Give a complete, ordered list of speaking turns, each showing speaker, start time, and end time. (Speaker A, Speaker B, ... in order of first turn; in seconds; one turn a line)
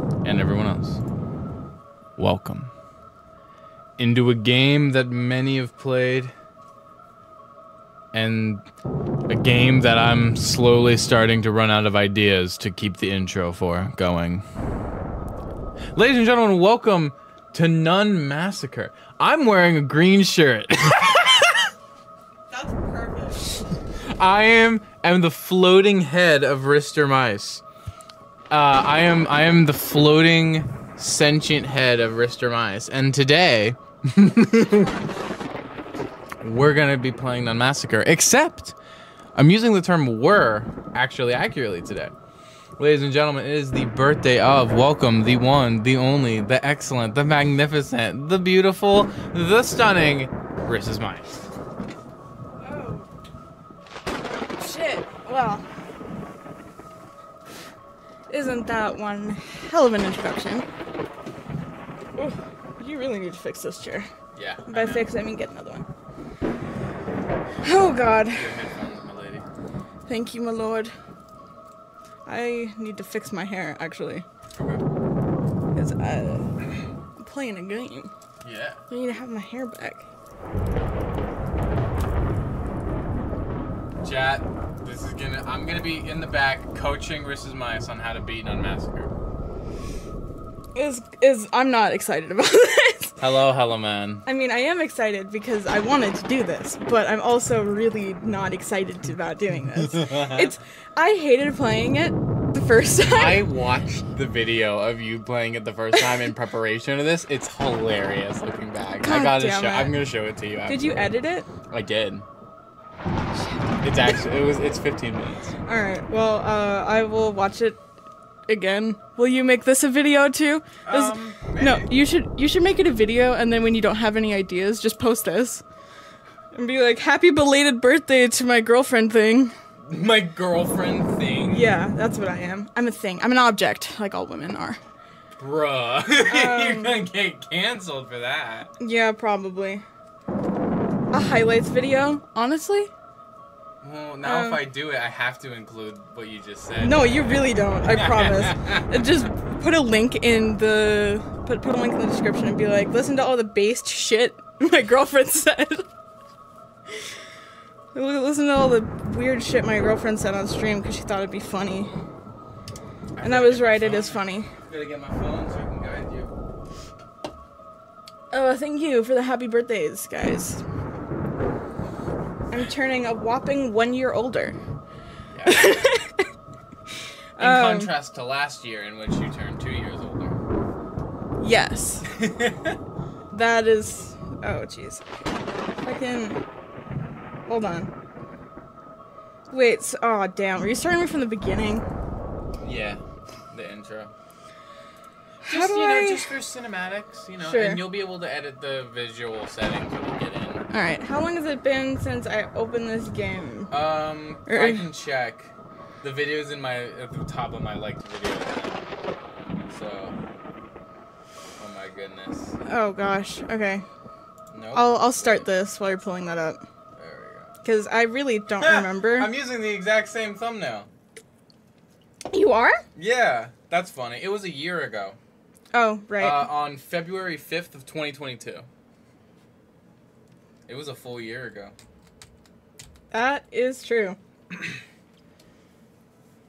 Speaker A: 0.2-1.0
Speaker A: 2.2-2.7
Speaker A: 4.0-6.3
Speaker A: 8.1-8.7
Speaker A: 9.3-14.4
Speaker A: 15.9-21.7
Speaker B: 22.5-23.5
Speaker A: 24.0-27.6
Speaker A: 28.5-35.0
Speaker A: 36.4-38.8
Speaker A: 39.4-42.1
Speaker A: 42.8-51.4
Speaker B: 52.6-53.1
Speaker B: 54.5-55.6
Speaker B: 58.3-60.7
Speaker B: 62.2-64.1
Speaker A: 64.3-65.1
Speaker B: 64.7-65.9
Speaker B: 67.6-68.6
Speaker A: 68.3-69.5
Speaker B: 70.1-70.9
Speaker B: 72.3-74.2
Speaker A: 74.5-74.8
Speaker B: 75.7-76.6
Speaker B: 77.2-78.1
Speaker A: 78.4-78.8
Speaker B: 78.9-80.0
Speaker A: 84.0-89.1
Speaker B: 90.8-93.2
Speaker A: 93.2-94.3
Speaker B: 94.2-103.5
Speaker A: 99.8-100.6
Speaker A: 103.0-111.1
Speaker B: 109.0-110.0
Speaker B: 110.7-111.5
Speaker A: 111.7-112.3
Speaker B: 113.3-113.8
Speaker A: 113.8-115.5
Speaker B: 115.7-117.8
Speaker B: 118.5-125.6
Speaker A: 120.8-121.9
Speaker B: 126.5-129.5
Speaker A: 129.8-131.7
Speaker B: 131.5-134.8
Speaker A: 135.4-138.7
Speaker B: 136.3-137.0
Speaker B: 138.8-139.8
Speaker B: 141.1-142.9
Speaker A: 143.8-149.3
Speaker B: 144.2-144.6
Speaker B: 146.8-155.9
Speaker B: 157.9-161.9
Speaker A: 163.2-166.3
Speaker B: 163.2-164.5
Speaker B: 168.3-170.6
Speaker B: 172.5-174.6
Speaker A: 175.3-175.8
Speaker B: 175.5-176.3
Speaker B: 177.4-177.9
Speaker A: 177.4-180.4
Speaker B: 181.4-182.1
Speaker A: 182.1-182.8
Speaker B: 183.3-185.2
Speaker B: 185.8-186.4
Speaker B: 187.5-187.9
Speaker B: 189.5-191.9
Speaker A: 192.6-194.1
Speaker A: 195.4-200.7
Speaker B: 195.4-196.3
Speaker B: 197.4-197.9
Speaker B: 200.7-203.7
Speaker A: 203.7-208.9
Speaker B: 204.5-204.9
Speaker A: 209.6-210.2
Speaker A: 211.6-212.6
Speaker B: 212.7-213.8
Speaker A: 214.5-215.5
Speaker B: 214.7-216.6
Speaker A: 217.0-217.5
Speaker B: 217.6-219.3
Speaker A: 218.6-220.9
Speaker B: 222.3-222.8
Speaker A: 223.0-225.2
Speaker B: 225.7-226.5
Speaker A: 226.2-228.7
Speaker A: 230.7-231.7
Speaker B: 233.1-234.2